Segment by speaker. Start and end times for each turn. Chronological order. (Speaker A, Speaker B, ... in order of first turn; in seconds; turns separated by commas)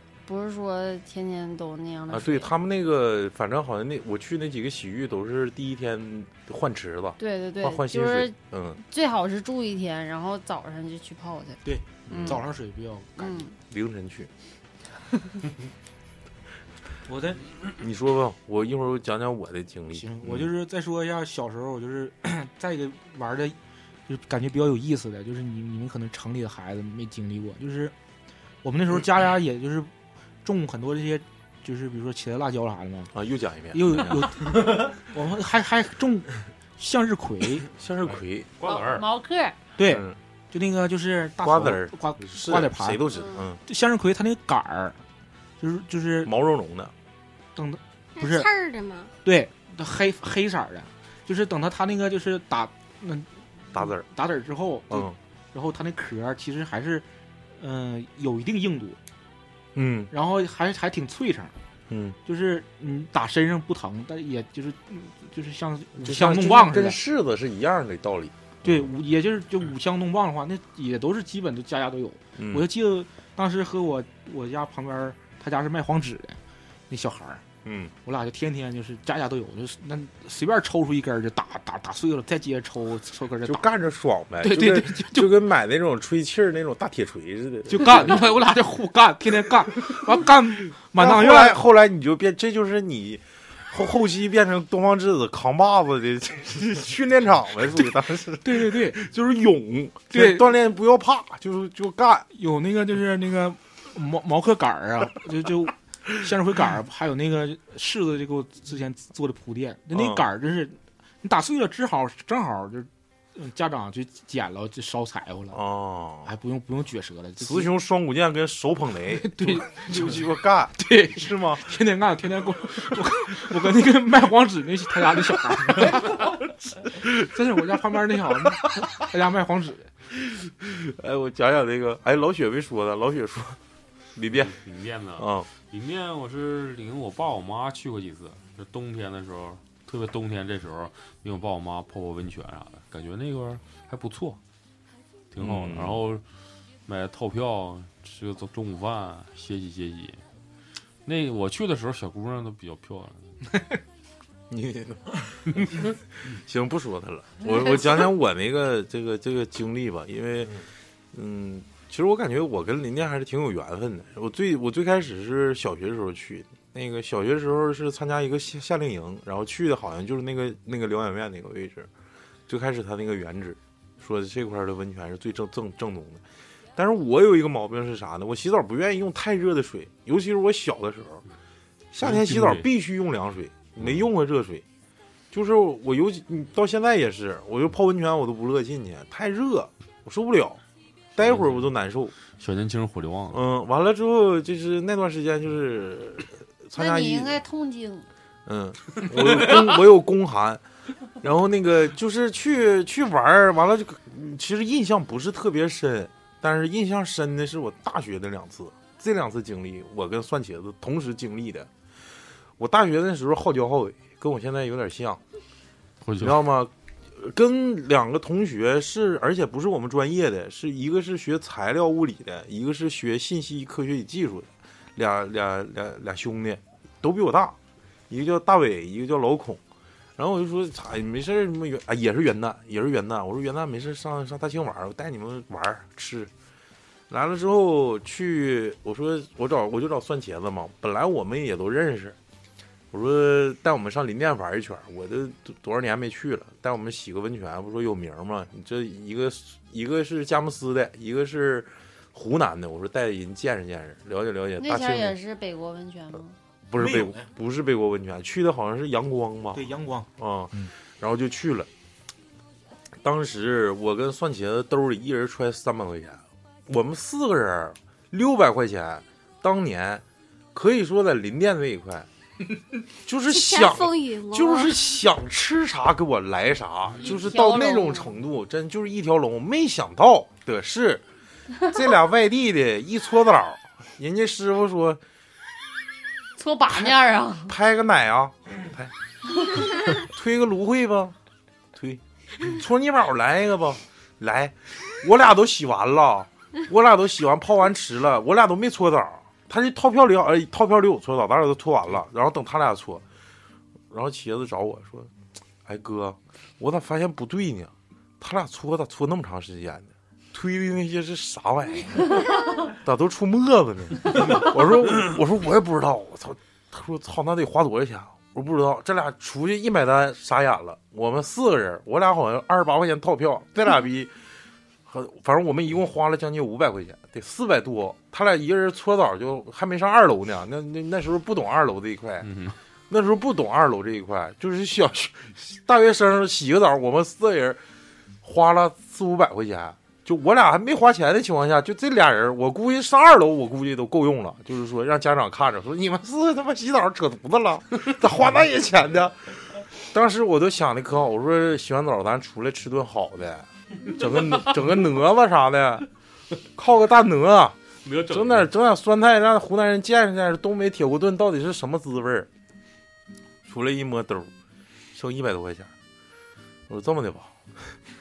Speaker A: 0.2-2.5, Speaker B: 2.1-8.8, Speaker A: 7.2-11.6, Speaker C: 11.6-13.5, Speaker B: 12.1-12.4, Speaker A: 13.2-13.6, Speaker B: 13.7-14.3, Speaker C: 17.1-17.4, Speaker B: 17.8-20.5, Speaker C: 19.9-23.6, Speaker C: 24.1-27.9, Speaker C: 28.6-29.9, Speaker C: 30.4-33.1, Speaker B: 33.1-34.3, Speaker C: 33.7-37.7, Speaker B: 37.7-38.5, Speaker D: 38.6-39.0, Speaker A: 38.6-39.6, Speaker C: 39.8-43.0, Speaker B: 39.9-40.2, Speaker B: 41.4-43.6, Speaker C: 43.7-45.0, Speaker C: 45.6-46.3, Speaker B: 46.2-46.9, Speaker C: 47.6-48.5, Speaker E: 48.1-49.1, Speaker C: 49.2-57.1, Speaker B: 53.7-54.1, Speaker B: 54.9-55.2, Speaker C: 57.6-59.0, Speaker B: 59.8-60.1, Speaker C: 60.1-61.5, Speaker B: 61.9-62.2, Speaker C: 62.2-67.0, Speaker B: 66.0-68.9, Speaker C: 68.6-76.4, Speaker B: 72.4-72.7, Speaker C: 76.9-77.4, Speaker B: 77.7-77.9, Speaker C: 78.0-83.7, Speaker B: 83.5-88.3, Speaker C: 84.4-85.4, Speaker C: 87.7-91.6, Speaker B: 90.8-102.3, Speaker C: 98.4-99.0, Speaker C: 100.1-100.5, Speaker C: 102.3-115.6, Speaker B: 109.9-110.2, Speaker B: 115.5-116.3, Speaker C: 116.2-117.7, Speaker B: 117.4-121.7, Speaker C: 119.1-126.3, Speaker B: 126.8-127.1, Speaker C: 127.0-129.9, Speaker B: 130.1-133.6, Speaker B: 134.2-134.6, Speaker D: 134.3-144.4, Speaker B: 135.2-135.5, Speaker D: 145.3-146.2, Speaker B: 145.4-146.0, Speaker D: 146.9-150.2, Speaker D: 151.1-153.4, Speaker B: 154.5-160.6, Speaker B: 161.1-171.9, Speaker B: 172.5-176.2, Speaker B: 176.8-181.2, Speaker B: 181.9-184.7, Speaker D: 182.0-182.7, Speaker B: 185.3-190.6, Speaker B: 191.2-192.2, Speaker D: 191.2-191.7, Speaker D: 192.4-193.4, Speaker B: 193.3-197.4, Speaker A: 196.8-198.1, Speaker B: 198.5-200.6, Speaker B: 201.2-211.7, Speaker B: 212.6-215.2, Speaker D: 216.0-216.4, Speaker B: 216.2-227.6, Speaker B: 228.1-229.6, Speaker B: 230.2-236.3, Speaker B: 237.1-242.2, Speaker B: 242.9-255.2, Speaker A: 254.6-256.4, Speaker B: 256.7-261.7, Speaker C: 256.8-257.3, Speaker C: 259.5-260.7, Speaker B: 263.0-272.1, Speaker B: 273.1-281.0, Speaker E: 273.3-275.0, Speaker A: 277.0-278.2, Speaker B: 281.6-285.0, Speaker A: 286.4-287.6, Speaker B: 287.5-288.9, Speaker B: 289.9-291.2, Speaker B: 291.7-303.1, Speaker B: 303.9-305.1, Speaker B: 305.6-324.1, Speaker B: 324.9-332.3, Speaker D: 332.2-332.6, Speaker B: 332.9-337.6, Speaker B: 338.2-355.9, Speaker B: 356.6-362.3, Speaker D: 357.9-358.5, Speaker B: 363.4-364.3, Speaker B: 364.9-365.7, Speaker B: 366.7-367.4